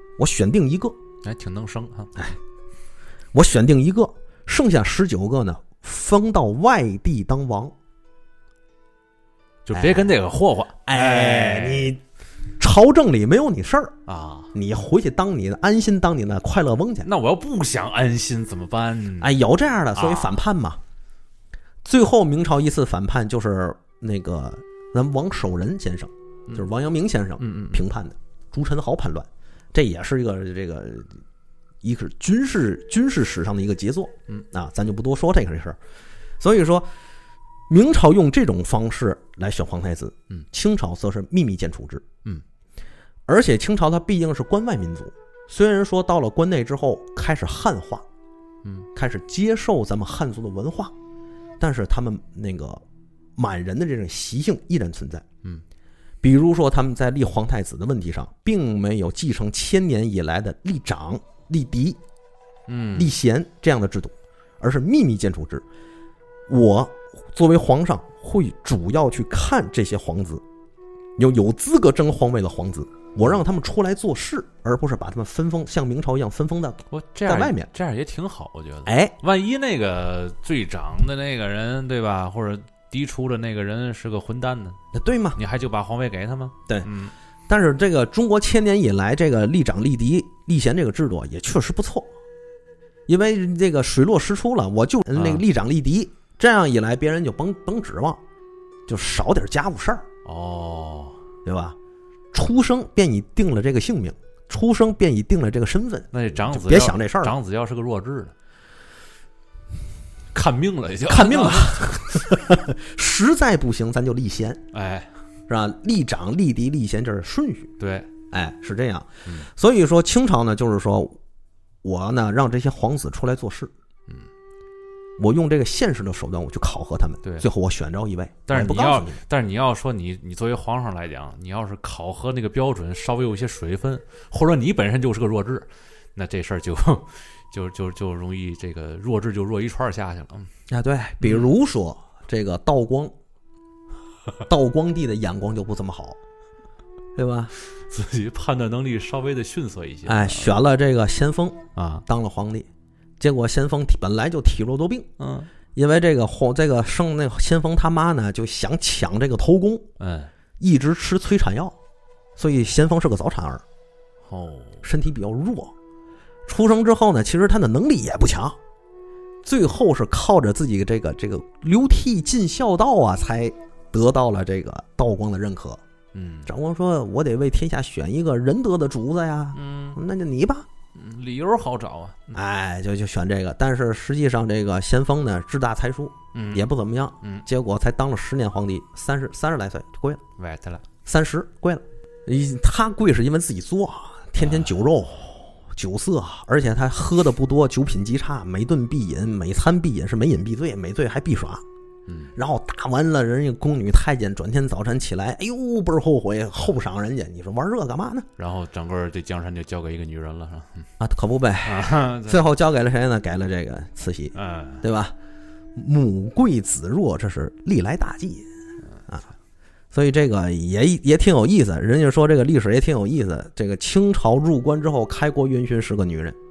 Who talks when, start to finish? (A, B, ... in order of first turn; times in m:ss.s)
0:00.2-0:01.0 A
0:01.2-0:02.1 B
0:03.3-0:07.8 A
0:09.7-0:11.9 B
0:09.7-0:10.1 A
0:10.9-0:12.0 A
0:12.6-0:14.0 A
0:14.1-0:14.5 B
0:14.5-0:17.1 A
0:17.0-0:19.4 B
0:19.2-0:20.8 A
0:19.9-0:20.4 B
0:21.8-0:31.2 A
0:27.4-0:27.8 B
0:31.8-0:35.8 A
0:36.4-0:36.9 A
0:37.7-0:42.1 A
0:43.3-0:48.1 A
0:48.9-0:50.9 A
0:51.6-0:52.8 A
0:53.4-0:55.2 A
0:56.2-1:02.0 A
1:02.7-1:03.1 B
1:03.0-1:05.6 A
1:06.5-1:10.4 A
1:11.2-1:17.7 A
1:16.9-1:24.8 B
1:18.9-1:19.2 A
1:24.9-1:25.4 A
1:25.4-1:27.1 B
1:27.5-1:32.1 A
1:33.1-1:38.2 A
1:35.1-1:35.4 B
1:38.9-1:40.1 A
1:40.2-1:41.2 B
1:41.4-1:41.8 A
1:42.3-1:47.4 A
1:46.1-1:48.3 B
1:50.3-1:52.4 B
1:51.1-1:54.6 A
1:54.7-1:55.1 B
1:55.5-1:57.7 A
1:57.8-1:58.1 B
1:58.3-2:01.2 A
2:01.8-2:03.7 A
2:05.2-2:09.2 A
2:08.5-2:20.5 B
2:20.7-2:23.1 A
2:24.5-2:26.2 A
2:27.2-2:27.5 A
2:27.6-2:30.6 B
2:30.1-2:32.7 A
2:31.8-2:32.0 B
2:33.2-2:35.1 A
2:35.2-2:35.5 B
2:35.8-2:39.9 A
2:40.0-2:40.3 B
2:40.6-2:41.8 A
2:42.4-2:43.6 A
2:44.2-2:44.9 B
2:44.8-2:45.7 A
2:46.5-2:48.6 A
2:49.4-2:55.8 A
2:56.1-2:56.5 B
2:56.5-3:00.7 A
2:59.5-3:00.0 B
3:01.0-3:02.4 B
3:02.3-3:10.2 A
3:06.3-3:06.6 B
3:10.4-3:10.8 B
3:11.0-3:21.6 A
3:14.4-3:14.7 B
3:22.1-3:22.3 B
3:22.4-3:28.3 A
3:28.4-3:30.9 B
3:31.0-3:35.2 A
3:31.6-3:32.4 B
3:34.4-3:34.8 B
3:35.8-3:38.5 A
3:39.9-3:46.4 A